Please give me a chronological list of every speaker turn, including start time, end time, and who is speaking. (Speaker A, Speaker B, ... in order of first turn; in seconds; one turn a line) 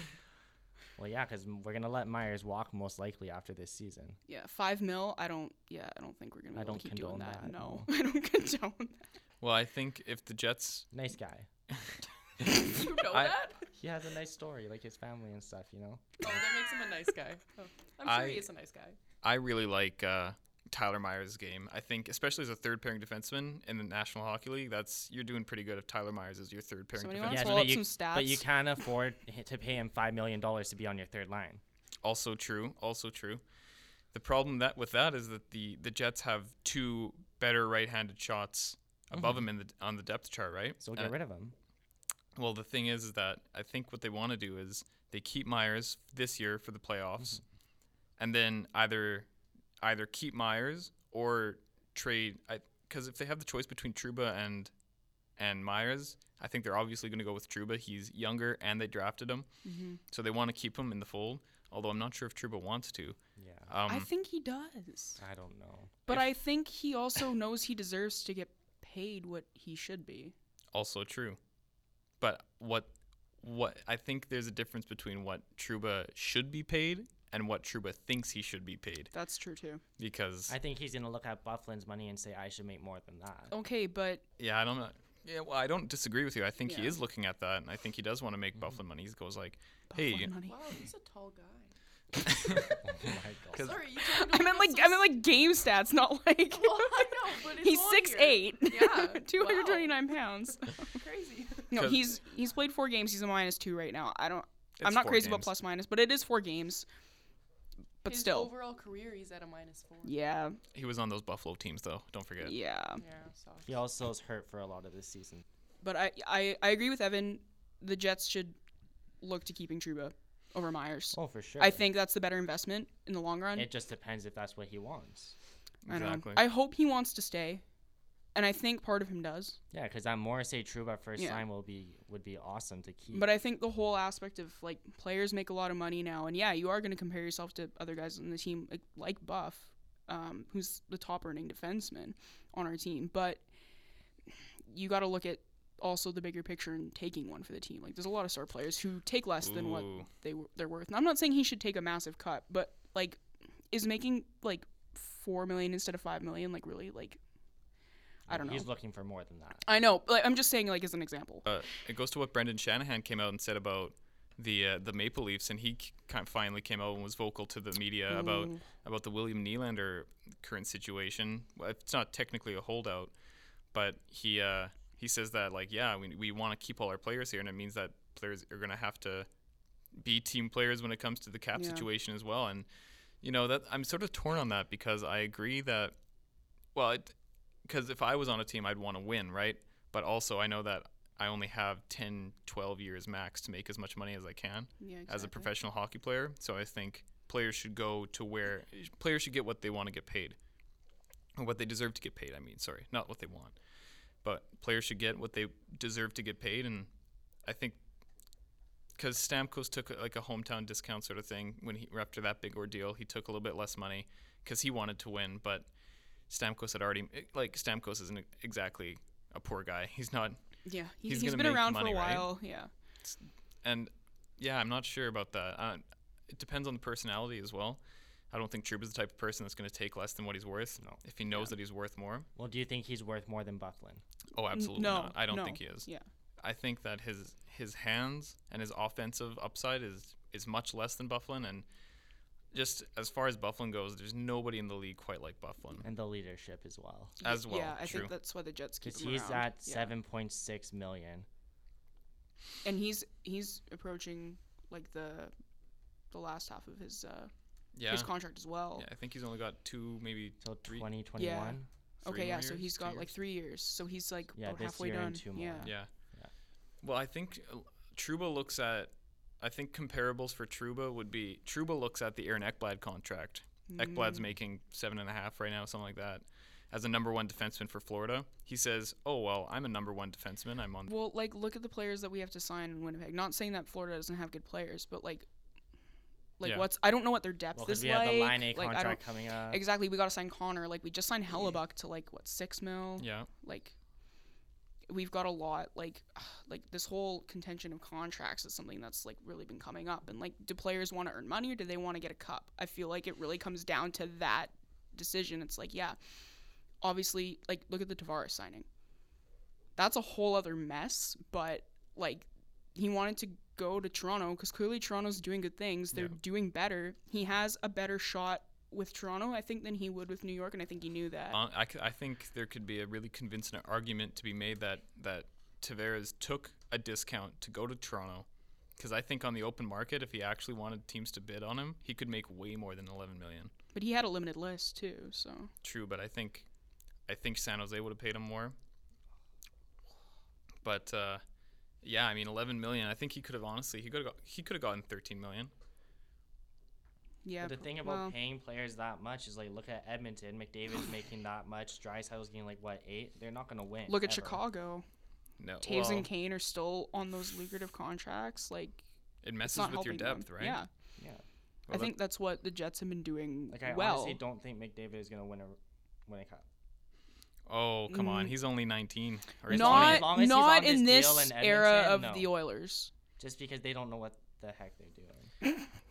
Speaker A: 1.0-4.2
Speaker B: 4.3-9.1
Speaker A: 6.5-7.9
Speaker C: 9.4-10.9
Speaker A: 10.9-11.5
Speaker D: 12.6-13.7
Speaker A: 13.7-16.4
Speaker D: 16.2-19.0
Speaker C: 18.0-18.5
Speaker C: 19.2-27.8
Speaker B: 26.9-28.4
Speaker A: 27.2-31.6
Speaker C: 32.0-33.4
Speaker C: 34.1-41.1
Speaker A: 40.8-41.5
Speaker C: 42.4-47.4
Speaker C: 48.2-49.3
Speaker C: 49.8-54.7
Speaker C: 55.4-59.5
Speaker B: 59.6-60.0
Speaker C: 60.1-63.2
Speaker A: 63.4-63.7
Speaker C: 63.7-64.1
Speaker B: 63.9-65.2
Speaker A: 65.2-66.0
Speaker B: 66.1-70.3
Speaker C: 70.7-71.4
Speaker C: 72.2-72.9
Speaker C: 73.4-79.1
Speaker B: 79.1-79.8
Speaker C: 80.0-80.5
Speaker A: 80.5-83.5
Speaker B: 83.5-84.2
Speaker C: 84.4-90.3
Speaker B: 86.6-87.0
Speaker B: 89.9-90.5
Speaker D: 90.4-91.7
Speaker C: 92.2-92.8
Speaker A: 92.7-93.8
Speaker D: 93.5-95.1
Speaker B: 94.0-100.9
Speaker D: 96.5-100.0
Speaker D: 100.9-101.8
Speaker B: 101.7-106.8
Speaker C: 101.7-102.0
Speaker C: 104.8-105.5
Speaker B: 108.0-108.5
Speaker D: 108.0-110.1
Speaker B: 110.0-110.6
Speaker C: 110.7-112.5
Speaker B: 112.4-113.0
Speaker D: 113.0-113.8
Speaker A: 113.6-115.4
Speaker B: 115.8-118.6
Speaker B: 119.2-123.7
Speaker A: 121.1-121.8
Speaker A: 123.5-125.3
Speaker C: 125.8-126.4
Speaker B: 125.9-127.6
Speaker B: 128.3-129.6
Speaker A: 129.7-133.3
Speaker B: 131.2-131.4
Speaker B: 133.1-143.4
Speaker B: 144.7-153.2
Speaker C: 149.4-150.1
Speaker B: 153.7-157.2
Speaker B: 158.3-158.7
Speaker A: 158.3-159.7
Speaker B: 159.6-161.4
Speaker C: 161.4-173.1
Speaker B: 168.1-168.6
Speaker C: 173.7-179.3
Speaker C: 179.9-182.7
Speaker B: 181.5-181.8
Speaker C: 183.2-185.9
Speaker C: 186.7-187.1
Speaker C: 187.6-200.4
Speaker B: 194.8-195.5
Speaker C: 201.3-203.5
Speaker C: 204.2-206.9
Speaker C: 207.4-207.8
Speaker C: 209.0-215.7
Speaker C: 216.3-220.4
Speaker B: 220.6-222.7
Speaker C: 221.0-222.3
Speaker C: 223.0-227.8
Speaker C: 228.3-232.2
Speaker A: 232.3-234.0
Speaker C: 234.3-235.9
Speaker B: 234.5-236.1
Speaker C: 236.4-241.6
Speaker C: 242.5-245.9
Speaker A: 245.8-247.2
Speaker C: 247.2-248.1
Speaker B: 247.2-249.9
Speaker A: 248.8-251.3
Speaker B: 252.6-255.3
Speaker B: 256.1-257.3
Speaker C: 257.7-258.1
Speaker B: 257.9-258.9
Speaker C: 258.8-260.9
Speaker A: 260.4-261.7
Speaker B: 261.2-265.7
Speaker C: 262.0-263.1
Speaker A: 264.3-266.3
Speaker C: 265.6-265.9
Speaker C: 266.8-280.9
Speaker B: 273.7-274.2
Speaker B: 280.9-285.2
Speaker B: 286.4-293.7
Speaker A: 287.5-289.6
Speaker C: 293.0-293.3
Speaker B: 294.9-306.0
Speaker B: 306.8-308.7
Speaker B: 309.8-321.4
Speaker C: 321.3-328.2
Speaker C: 328.8-333.5
Speaker B: 333.7-335.5
Speaker C: 335.6-336.4
Speaker C: 337.1-338.5
Speaker C: 340.6-341.2
Speaker C: 341.8-345.5
Speaker B: 347.2-348.1
Speaker A: 347.4-354.4
Speaker B: 353.9-354.8
Speaker C: 355.4-356.1
Speaker B: 355.6-358.8
Speaker C: 359.2-360.6
Speaker B: 359.4-360.7
Speaker A: 361.0-361.2
Speaker C: 361.7-361.9
Speaker B: 361.7-364.2
Speaker A: 363.5-366.4
Speaker C: 367.5-370.1
Speaker B: 367.9-368.3
Speaker A: 369.5-372.3
Speaker B: 369.5-372.9
Speaker A: 373.2-375.3